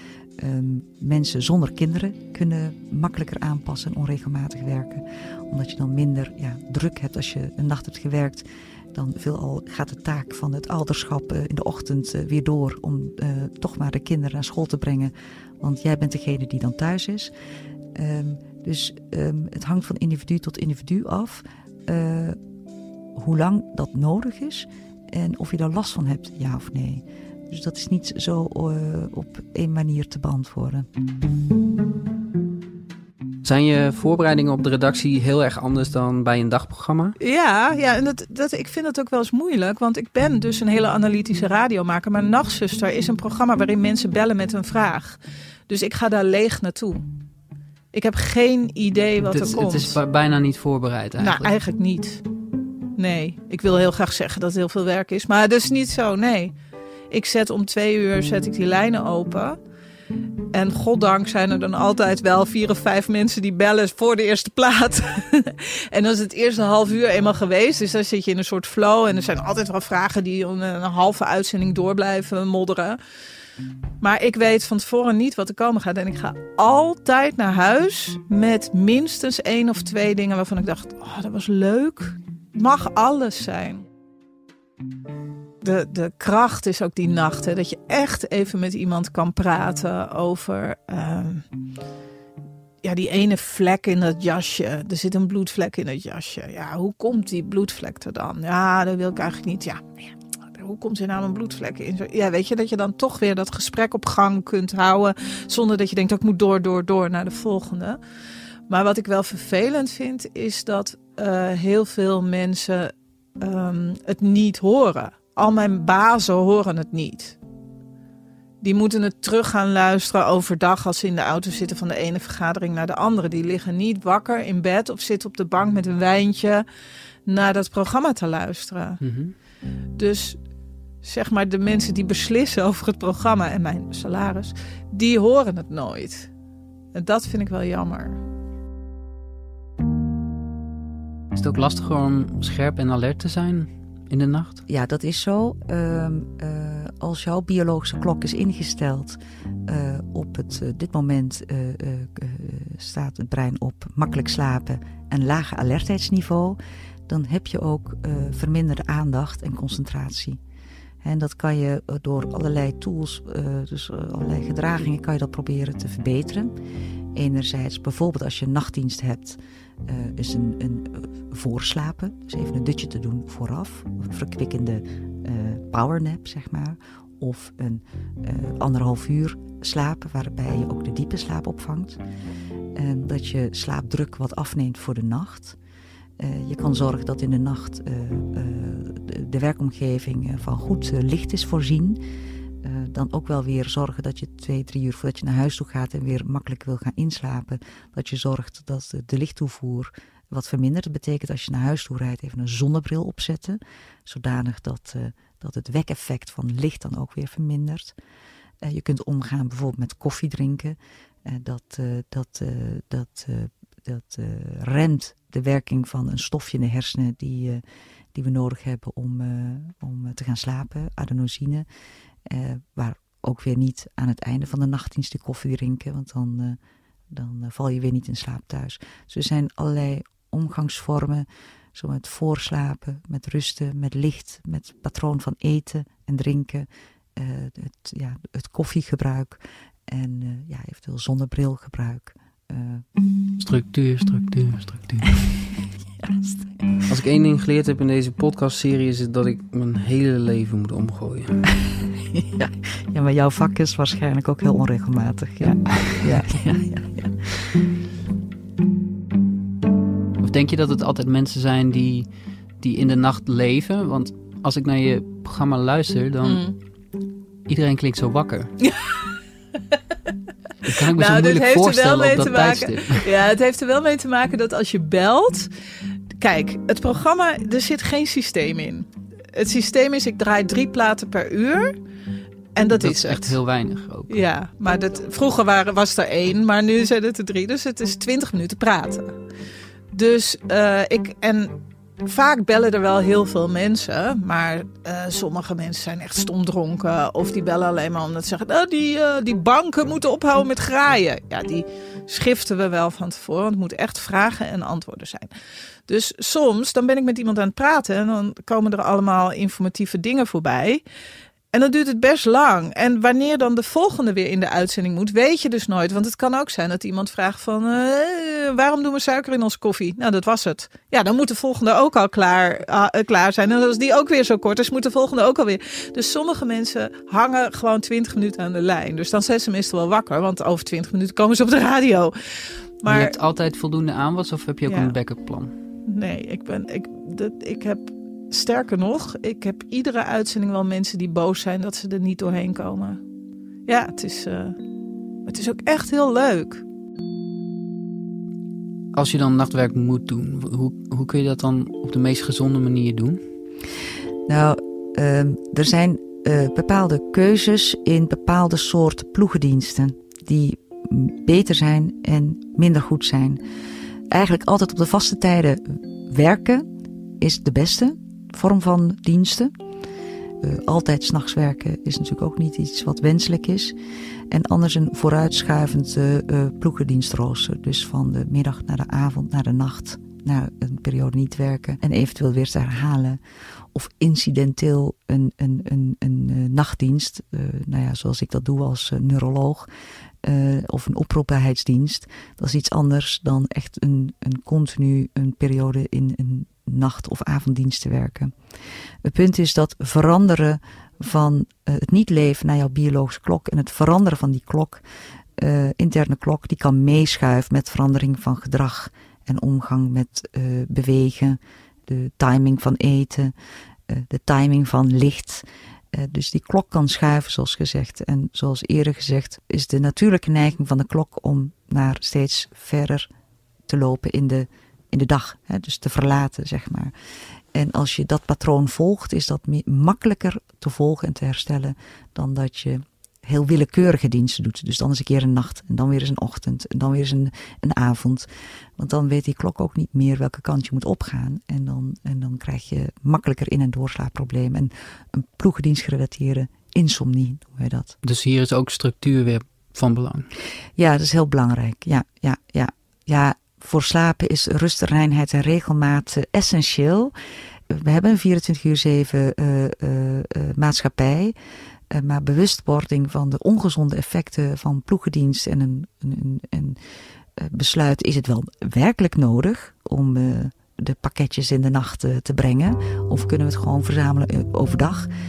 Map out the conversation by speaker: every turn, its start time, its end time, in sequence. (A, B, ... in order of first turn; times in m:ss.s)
0:00.4-0:17.3 A
0:17.9-0:22.4 A
0:23.1-0:30.9 A
0:33.4-0:37.2 B
0:37.2-0:47.0 C
0:47.9-0:50.0 C
0:49.3-0:51.5 B
0:51.2-0:52.2 C
0:53.0-0:56.5 C
0:57.1-0:59.6 C
1:00.5-1:13.0 C
1:14.0-1:23.8 C
1:25.6-1:31.4 C
1:32.8-1:48.0 C
1:48.7-1:57.4 C
1:58.6-2:06.6 C
2:07.2-2:09.0 C
2:09.0-2:09.3 B
2:10.0-2:10.4 C
2:11.0-2:16.3 C
2:16.9-2:18.2 C
2:21.3-2:24.6 B
2:24.7-2:40.4 A
2:41.0-2:46.5 A
2:47.1-3:02.0 A
3:02.7-3:05.6 A
3:06.2-3:12.0 A
3:12.6-3:27.9 A
3:28.6-3:37.6 A
3:38.1-3:41.6 A
3:42.2-3:46.6 A
3:47.1-4:02.8 A
4:03.4-4:05.1 B
4:06.0-4:06.8 A
4:06.9-4:11.4 B
4:12.2-4:17.5 A
4:20.2-4:26.4 B
4:26.2-4:26.6 C
4:27.5-4:28.6 B
4:28.6-4:29.0 C
4:30.6-4:33.1 B
4:30.8-4:35.5 C
4:36.1-4:41.8 C
4:42.5-4:43.4 C
4:42.8-4:44.2 B
4:44.1-4:49.2 C
4:49.9-5:05.3 C
5:05.9-5:10.8 C
5:11.5-5:33.2 C
5:32.8-5:35.5 B
5:34.7-5:34.9 C
5:35.9-5:43.0 C
5:43.7-5:44.6 C
5:45.2-5:46.6 C
5:48.9-5:53.2 B
5:54.3-6:03.4 A
6:04.1-6:09.5 A
6:10.4-6:13.8 A
6:14.3-6:23.2 A
6:23.7-6:29.7 A
6:30.2-6:38.3 A
6:39.0-6:44.8 A
6:45.4-6:53.3 A
6:53.9-7:03.1 A
7:03.7-7:06.9 A
7:07.5-7:28.0 A
7:28.0-7:30.3 B
7:30.8-7:37.1 A
7:37.7-7:41.4 A
7:41.9-7:46.8 A
7:47.4-7:55.1 A